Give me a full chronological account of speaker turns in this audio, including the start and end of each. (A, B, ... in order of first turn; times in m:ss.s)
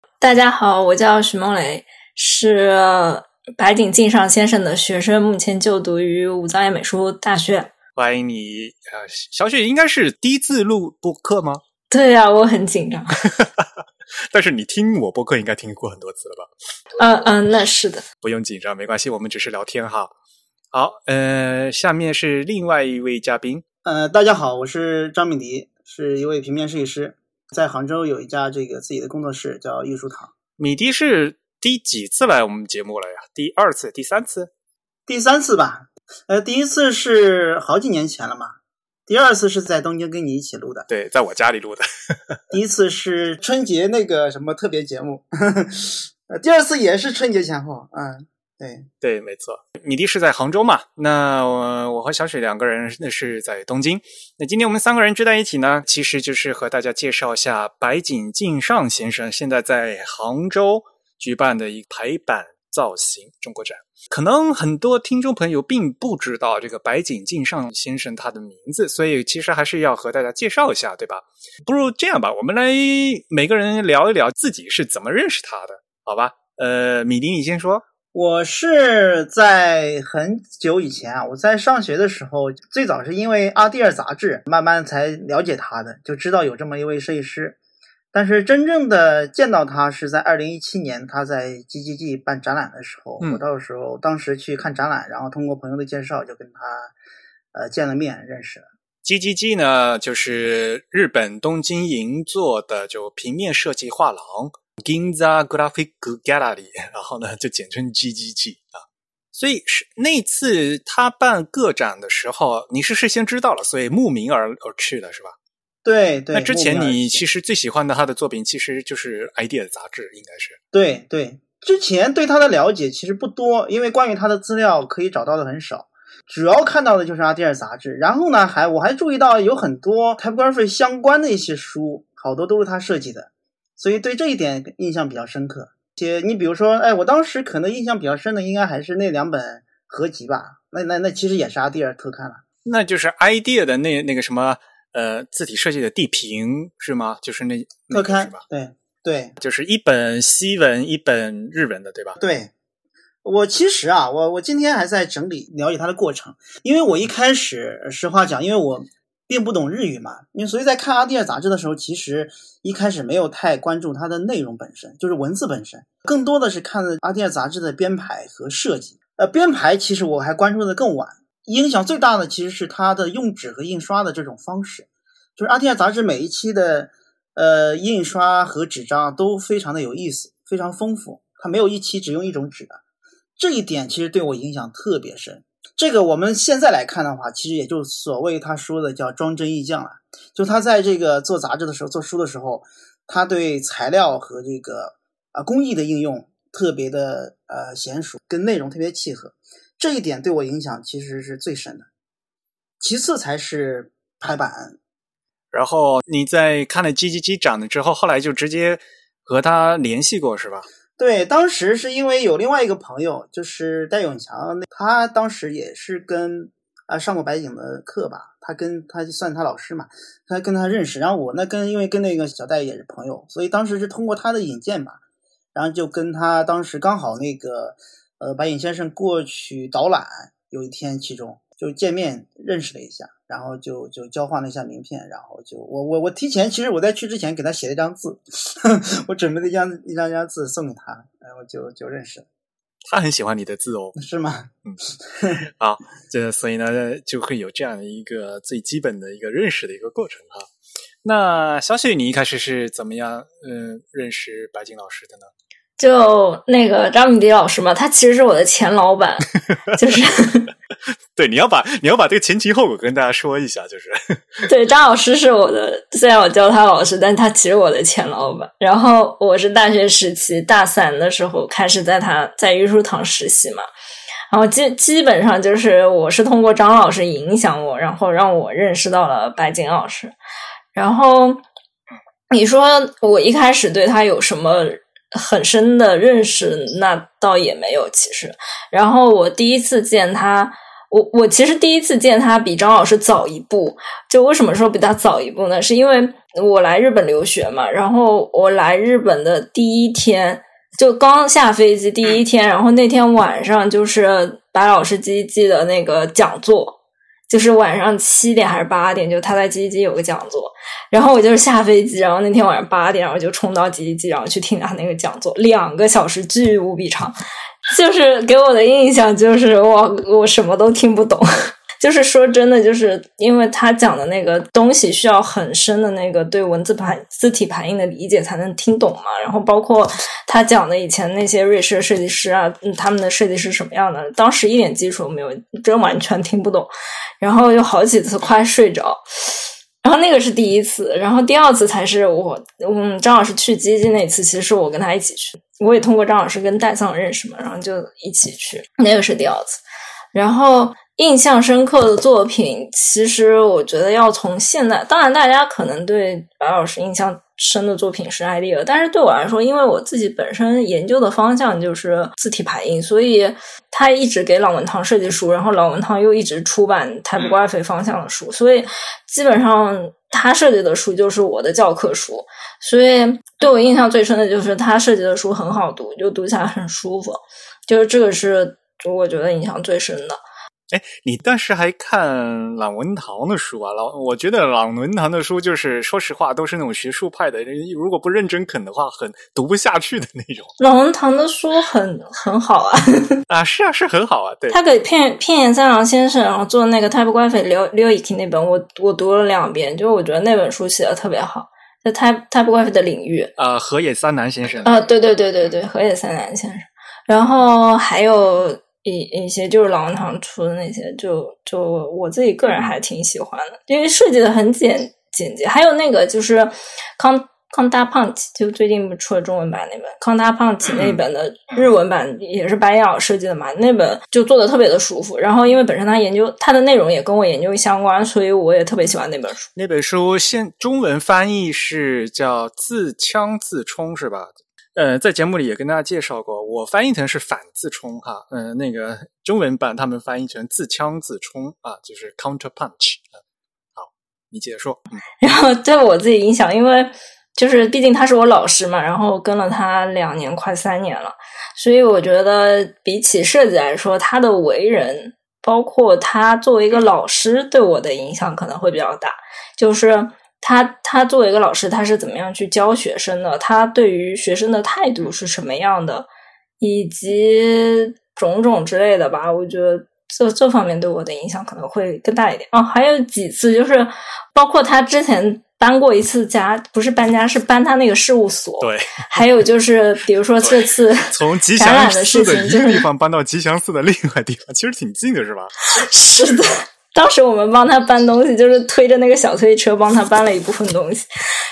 0:00.2-0:07.7 A
0:08.0-0:11.6 B
0:11.9-0:13.2 A
0:13.3-0:16.5 B
0:17.0-0:18.1 A
0:18.2-0:20.1 B
0:20.7-0:23.6 B
0:23.8-0:30.3 C
0:30.6-0:34.5 B
0:35.1-0:38.6 C
0:39.1-0:40.9 C
0:40.9-0:42.4 B
0:42.5-0:48.9 C
0:49.0-1:17.8 B
1:18.1-1:27.6 C
1:28.1-1:36.9 C
1:37.5-1:38.7 C
1:39.0-1:48.8 B
1:49.3-1:55.4 B
1:55.8-1:57.2 C
1:56.3-2:00.6 B
2:00.7-2:22.4 C
2:22.6-2:28.4 B
2:27.9-2:29.4 C
2:29.4-2:32.2 B
2:32.2-2:32.5 C
2:33.2-3:02.8 C
3:03.4-3:21.9 C
3:22.8-3:24.8 C
3:25.5-3:30.7 B
3:31.0-3:45.0 C
3:45.6-4:02.3 C
4:02.9-4:04.0 B
4:04.0-4:05.4 C
4:05.6-4:10.5 B
4:11.0-4:15.3 B
4:15.8-4:20.5 A
4:21.2-4:24.4 B
4:24.5-4:33.7 A
4:34.3-4:40.2 A
4:40.7-4:41.4 A
4:42.3-5:06.8 A
5:07.3-5:17.2 A
5:17.7-5:49.6 A
5:50.1-6:20.2 A
6:20.7-6:30.5 B
6:30.6-6:33.2 A
6:33.3-6:34.6 B
6:34.5-6:43.3 A
6:43.4-6:44.8 B
6:44.6-7:09.5 A
7:09.6-7:23.2 B
7:23.8-7:25.0 B
7:25.2-7:46.1 A
7:46.6-8:02.8 A
7:58.6-7:59.2 B
8:00.4-8:05.5 B
8:05.7-8:11.0 A